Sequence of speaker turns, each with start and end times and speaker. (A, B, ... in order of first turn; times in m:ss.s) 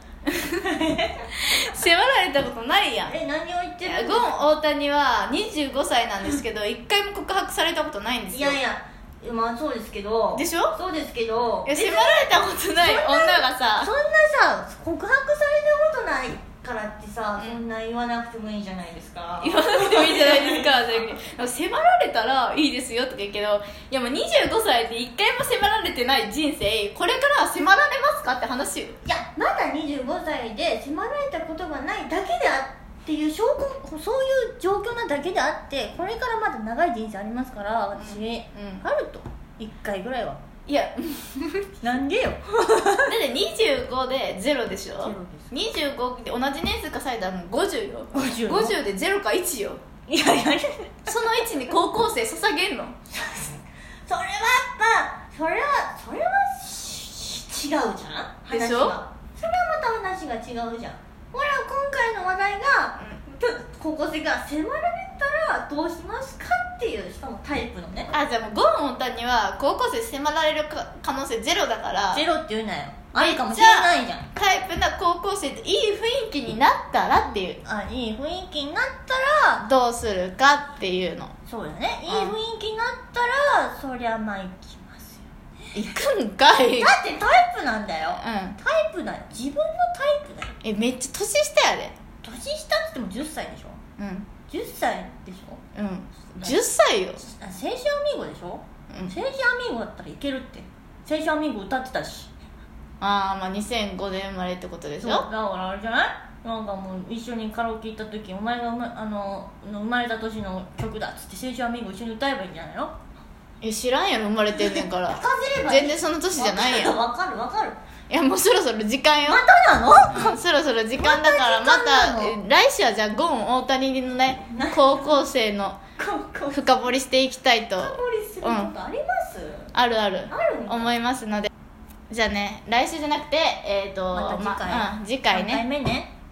0:00.2-0:00.6 A
0:00.6-0:01.3 B
0:01.4-0:03.1 A
0:03.0-0:04.4 B
0:03.8-0:08.6 A
0:08.3-0:12.2 B
0:10.3-0:10.7 A
0:11.6-0:13.9 A
0:12.8-0:21.0 B
0:19.4-0:29.0 A
0:29.0-0:40.4 B
0:37.9-0:38.8 A
0:40.6-0:41.7 A
0:41.8-0:43.1 B
0:43.0-0:49.8 A
0:45.0-0:45.5 B
0:48.1-0:48.8 B
0:50.1-0:51.1 B
0:51.1-0:52.9 A
0:53.1-1:08.1 B
0:58.5-0:59.0 A
1:08.1-1:12.2 A
1:12.1-1:14.3 B
1:13.1-1:17.6 A
1:17.2-1:19.6 B
1:19.6-1:21.3 A
1:21.4-1:25.7 B
1:22.1-1:22.4 A
1:25.7-1:27.0 A
1:26.8-1:30.5 B
1:28.1-1:28.6 A
1:30.6-1:32.0 A
1:32.2-1:33.8 B
1:34.0-1:34.3 A
1:34.5-1:35.6 B
1:35.7-1:37.2 A
1:37.2-1:42.3 B
1:38.9-1:39.1 A
1:43.0-1:45.3 A
1:45.0-1:53.0 B
1:53.6-1:57.0 A
1:54.5-1:57.8 B
1:58.1-1:59.6 A
1:59.2-2:00.4 B
2:00.1-2:05.8 A
2:00.9-2:02.4 B
2:04.5-2:05.3 B
2:06.0-2:07.0 B
2:06.5-2:08.7 A
2:07.8-2:09.7 B
2:09.7-2:11.5 A
2:10.3-2:10.9 B
2:12.1-2:15.6 A
2:14.1-2:16.1 B